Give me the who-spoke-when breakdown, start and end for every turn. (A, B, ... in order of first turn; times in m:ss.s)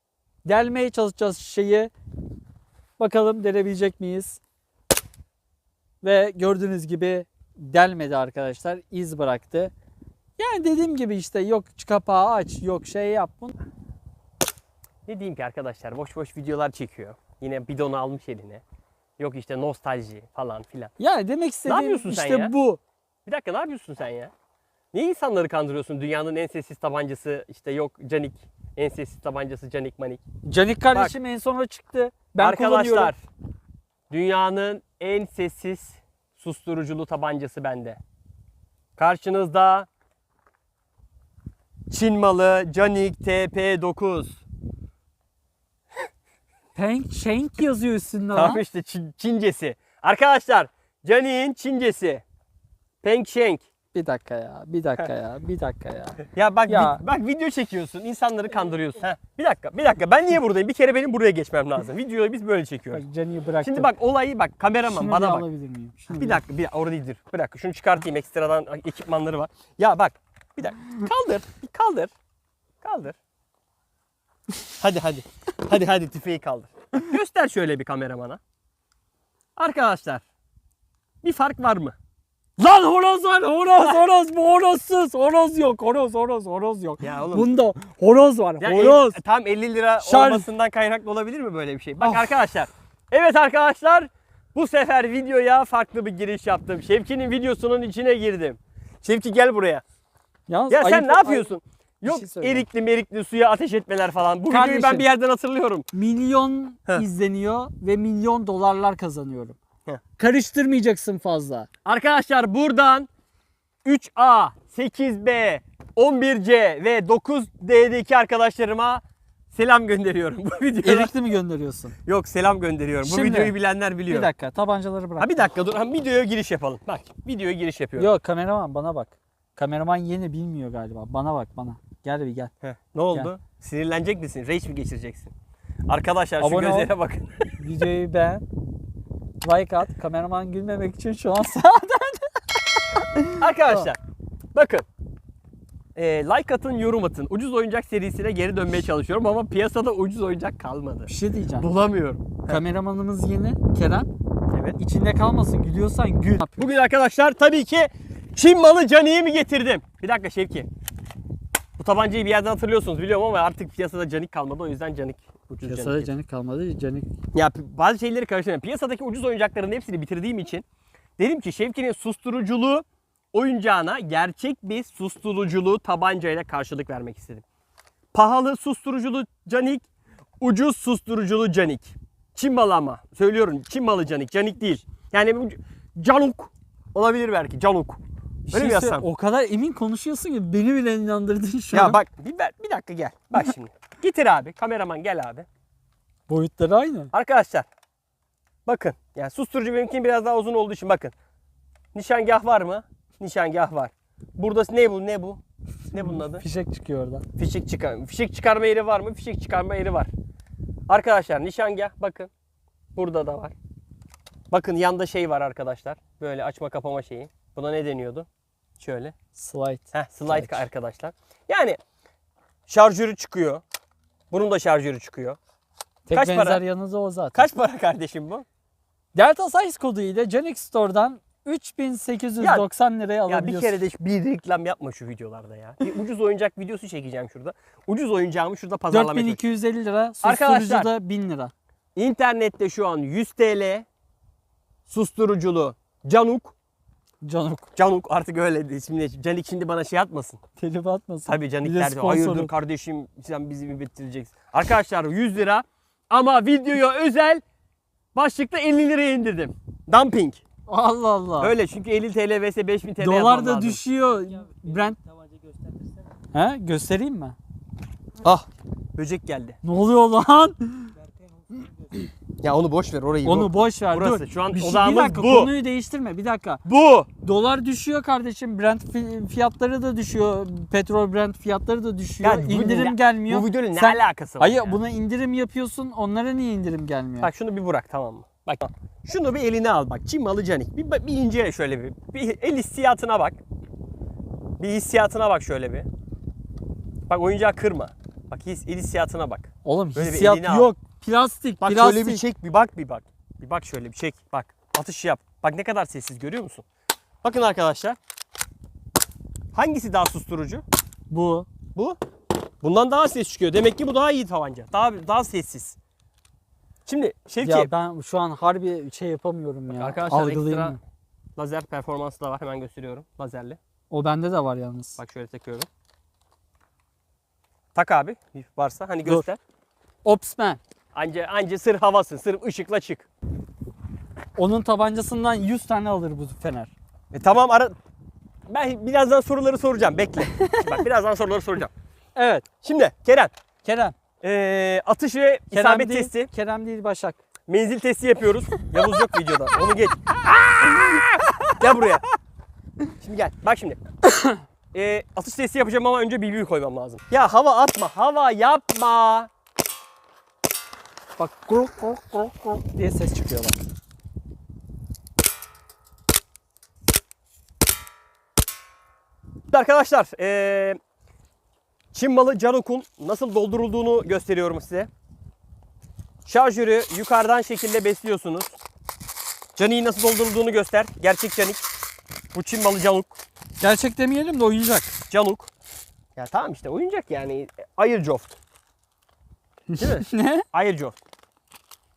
0:00.4-0:01.9 A
0:03.0-0:04.4 A
0:06.0-0:09.7 A
0:10.4-0:13.5 A
0:15.1-0:18.6 B
0:19.2-0:20.9 B
0:21.0-0:22.8 A
0:21.7-0:22.5 B
0:23.2-0:24.3 B
0:24.9-0:30.2 B
0:30.4-0:33.1 A
0:32.4-0:33.2 B
0:34.1-0:38.0 B
0:39.0-0:39.9 B
0:41.9-0:44.4 B
0:46.7-0:48.6 A
0:48.3-0:52.2 B
0:53.0-0:53.6 B
0:53.9-0:57.0 A
0:56.3-1:03.0 B
1:02.9-1:03.9 A
1:03.6-1:05.5 B
1:04.9-1:06.4 A
1:06.1-1:12.1 B
1:12.8-1:13.2 B
1:14.8-1:18.4 B
1:19.6-1:20.2 B
1:21.2-1:21.9 B
1:22.6-1:24.0 B
1:23.5-1:29.2 A
1:27.0-1:27.5 B
1:28.6-1:39.8 B
1:30.0-1:30.5 A
1:32.0-1:32.3 A
1:40.5-1:42.6 A
1:40.7-1:45.9 B
1:44.5-1:45.0 A
1:45.9-1:49.6 A
1:50.2-1:51.7 A
1:51.8-1:53.1 B
1:53.8-2:01.1 B
2:00.8-2:01.9 A
2:02.0-2:04.3 B
2:03.0-2:03.5 A
2:04.1-2:05.4 A
2:05.2-2:08.1 B
2:08.0-2:12.5 A
2:12.6-2:15.3 B
2:15.9-2:17.6 B
2:16.4-2:16.9 A
2:17.6-2:18.4 A
2:19.4-2:23.9 A
2:23.4-2:24.0 B
2:24.5-2:24.8 B
2:25.9-2:32.6 B
2:31.1-2:31.7 A
2:32.5-2:34.1 A
2:34.5-2:34.8 B
2:34.8-2:36.7 A
2:36.6-2:40.7 B
2:41.8-2:46.1 B
2:45.6-2:47.1 A
2:47.3-2:50.6 B
2:51.2-2:57.4 B
2:58.1-2:59.8 B
3:00.4-3:09.1 B
3:08.5-3:12.0 A
3:11.7-3:15.5 B
3:16.3-3:17.1 A
3:17.1-3:17.6 B
3:18.6-3:21.1 B
3:21.9-3:25.4 B
3:25.9-3:26.4 B
3:25.9-3:27.2 A
3:27.4-3:30.1 B
3:30.9-3:32.3 B
3:32.9-3:33.5 B
3:34.5-3:38.3 B
3:38.8-3:39.1 B
3:39.4-3:40.6 A
3:39.9-3:41.8 B
3:42.7-3:43.6 B
3:44.3-3:45.4 B
3:46.1-3:47.5 A
3:46.1-3:46.6 B
3:47.3-3:48.4 B
3:49.1-3:53.8 A
3:52.4-3:52.7 B
3:53.3-3:59.4 B
3:58.9-4:01.5 A
4:00.2-4:00.9 B
4:01.9-4:03.9 B
4:04.9-4:06.5 B
4:07.2-4:07.7 A
4:07.7-4:10.4 B
4:10.6-4:12.5 A
4:11.2-4:17.4 B
4:18.1-4:20.4 B
4:20.7-4:21.5 A
4:21.4-4:23.8 B
4:23.0-4:25.0 A
4:26.3-4:27.4 A
4:28.2-4:29.6 B
4:29.6-4:30.9 A
4:32.4-4:35.5 B
4:33.2-4:36.6 A
4:36.6-4:37.1 B
4:37.2-4:47.3 A
4:42.2-4:44.8 B
4:47.2-4:53.4 B
4:54.6-4:55.9 B
4:57.1-5:00.7 B
4:59.6-5:02.2 A
5:01.6-5:06.6 B
5:07.2-5:08.0 B
5:09.5-5:10.6 B
5:11.1-5:11.5 A
5:12.6-5:15.8 B
5:16.8-5:17.7 B
5:17.4-5:20.8 A
5:19.7-5:20.8 B
5:21.4-5:23.6 B
5:23.9-5:25.0 A
5:25.0-5:25.7 B
5:27.7-5:29.4 B
5:30.0-5:30.6 A
5:30.9-5:33.1 B
5:34.4-5:36.7 A
5:37.1-5:37.8 B
5:38.5-5:41.7 B
5:40.4-5:40.8 A
5:42.1-5:42.4 A
5:42.6-5:43.3 B
5:43.6-5:43.9 A
5:44.2-5:46.3 B
5:45.5-5:47.2 A
5:47.5-5:52.0 B
5:51.0-5:51.5 A
5:53.0-5:53.8 B
5:54.7-5:59.3 B
6:01.2-6:03.6 A
6:09.5-6:10.8 B
6:11.9-6:14.9 B
6:16.2-6:18.6 B
6:19.6-6:21.6 B
6:22.3-6:23.2 B
6:23.6-6:25.0 A
6:25.1-6:25.5 B
6:26.2-6:28.4 B
6:29.7-6:30.4 A
6:29.8-6:31.0 B